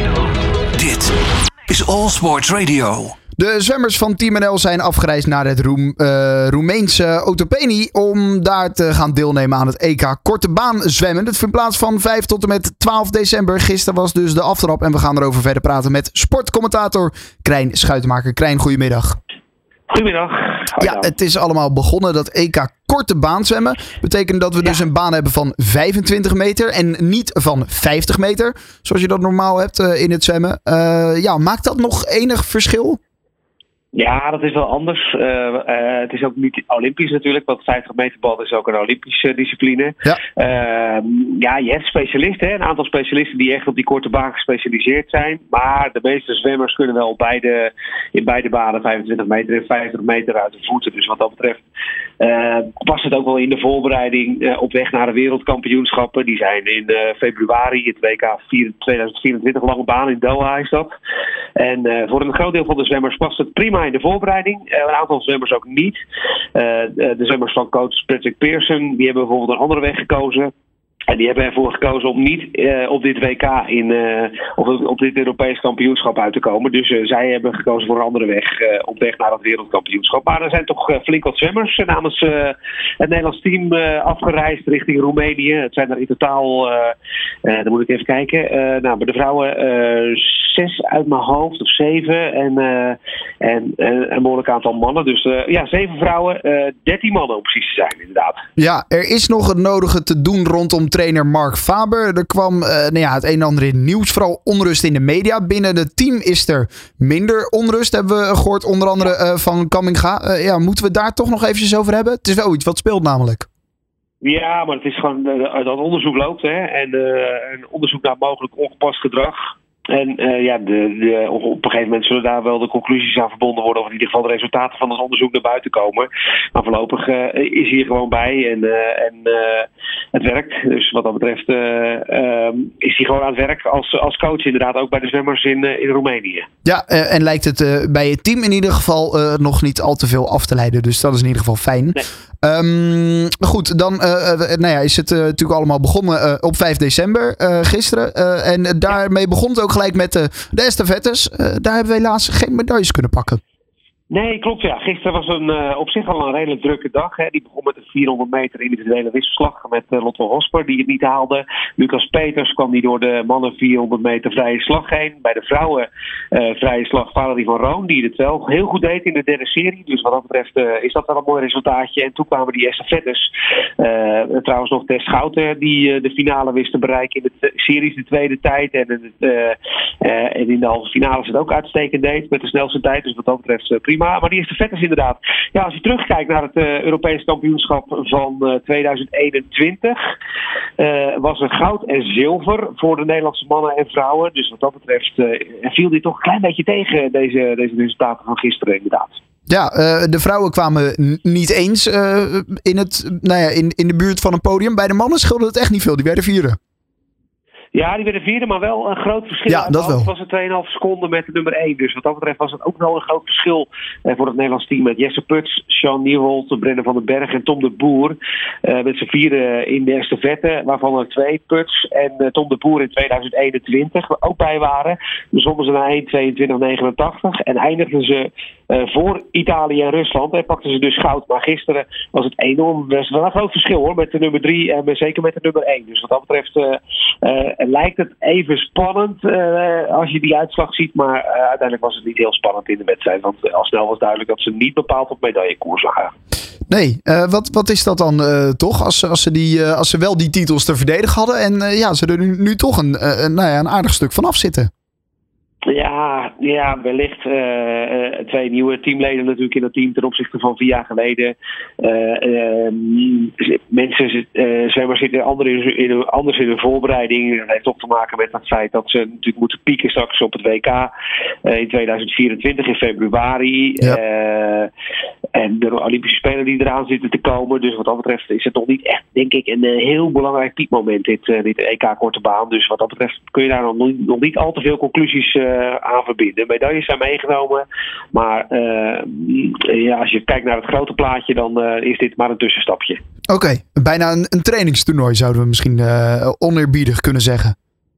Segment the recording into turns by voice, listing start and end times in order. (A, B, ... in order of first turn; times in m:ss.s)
0:00.7-0:01.1 A
0:01.7-0:03.2 A
0:03.4-0:19.2 B
0:19.9-0:21.1 C
0:20.8-0:33.0 B
0:33.9-0:51.6 C
0:52.2-1:00.9 C
1:01.6-1:06.0 C
1:06.5-1:10.5 C
1:11.1-1:38.4 C
1:38.6-1:53.5 B
1:54.2-2:16.5 C
2:16.6-2:33.4 B
2:34.1-3:10.0 C
3:10.8-3:19.2 C
3:19.5-3:26.6 B
3:27.7-4:06.1 C
3:29.5-3:30.1 B
4:06.7-4:14.7 B
4:15.6-4:30.9 C
4:31.4-4:34.7 C
4:35.3-4:53.0 C
4:53.3-4:57.5 B